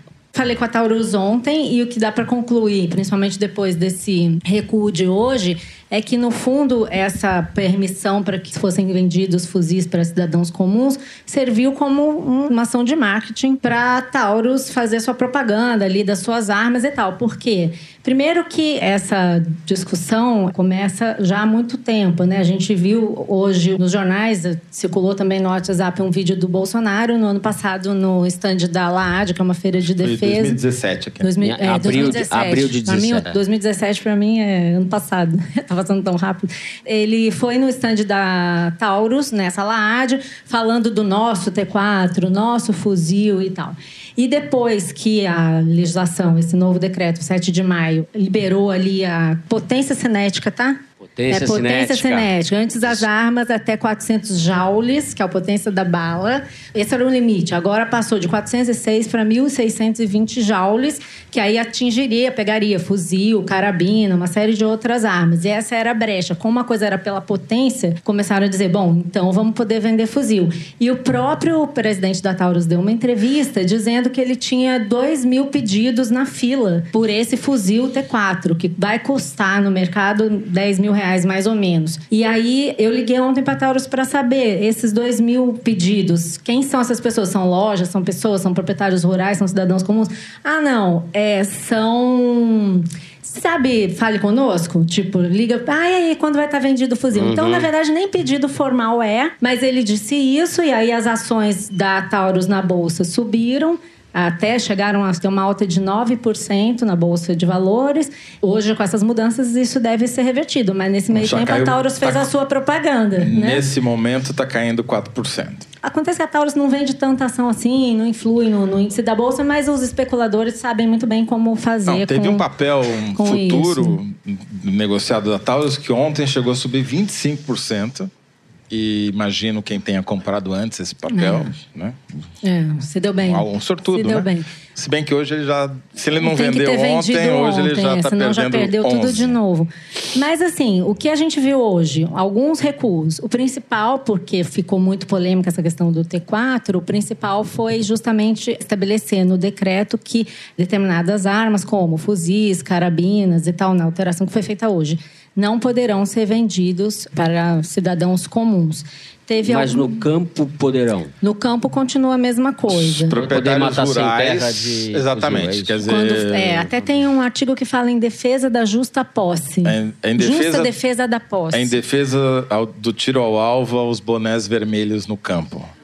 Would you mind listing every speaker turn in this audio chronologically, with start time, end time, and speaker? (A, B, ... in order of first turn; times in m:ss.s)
0:00.3-0:30.6 A
0:30.0-0:31.3 B
0:31.2-1:53.6 A
0:31.4-0:33.4 C
0:51.1-0:52.3 C
1:37.1-1:37.7 C
1:51.1-1:52.2 B
1:53.2-1:55.6 B
1:55.8-2:02.5 A
2:01.9-2:08.1 B
2:03.2-2:04.0 A
2:08.7-2:12.0 B
2:11.1-2:11.5 A
2:12.4-2:14.5 A
2:13.2-2:19.4 B
2:16.2-2:40.0 A
2:39.4-2:41.1 C
2:41.2-2:43.2 A
2:42.7-2:46.7 B
2:43.1-2:45.8 C
2:45.8-2:51.8 A
2:49.6-2:50.7 B
2:51.5-2:55.7 B